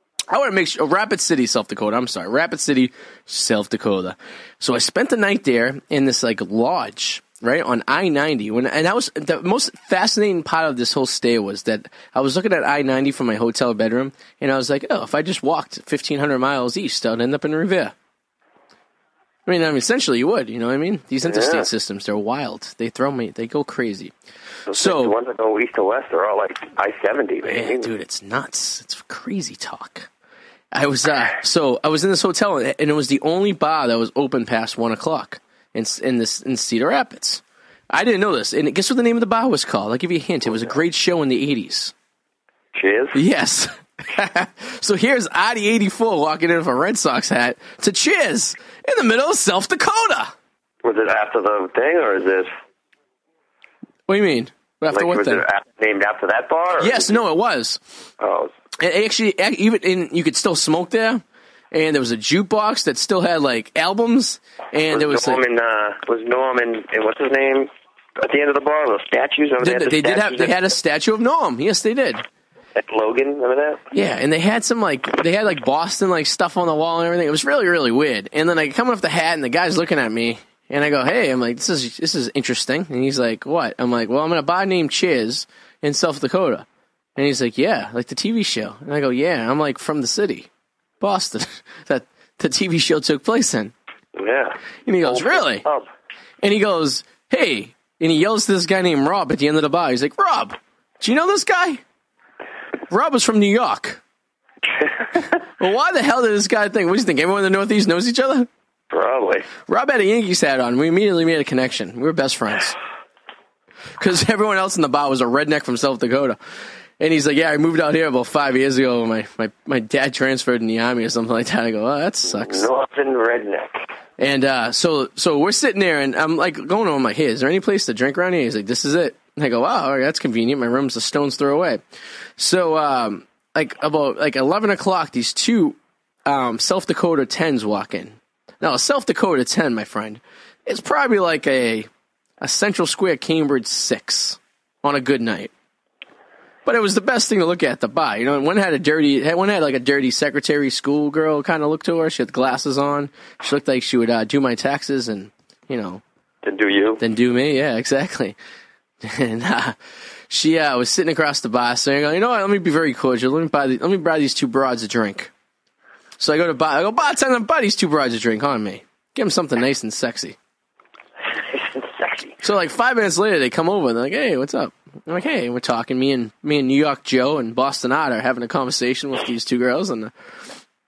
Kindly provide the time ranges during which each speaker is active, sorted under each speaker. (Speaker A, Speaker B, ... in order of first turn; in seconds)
Speaker A: 0.3-17.9, 19.4-24.1, 24.7-25.1, 27.4-30.1, 30.7-41.9, 43.1-50.3, 54.1-55.4, 56.8-57.8, 58.8-65.4, 69.6-72.2, 73.9-90.5, 91.0-93.7, 94.8-95.6, 96.4-101.8, 102.9-104.0, 105.6-108.5, 109.7-112.8, 114.0-116.4, 117.0-122.7, 124.2-131.8, 132.4-141.9, 142.4-145.5, 146.7-156.0, 157.0-158.3, 159.0-159.8, 160.3-165.3, 166.2-170.3, 172.4-180.1
Speaker B: 21.2-21.7, 24.7-27.9, 42.7-43.2, 50.8-52.5, 54.9-57.2, 58.2-58.5, 64.9-70.6, 72.8-73.8, 94.2-95.8, 108.9-109.5, 122.3-123.8, 156.4-157.0, 171.5-172.3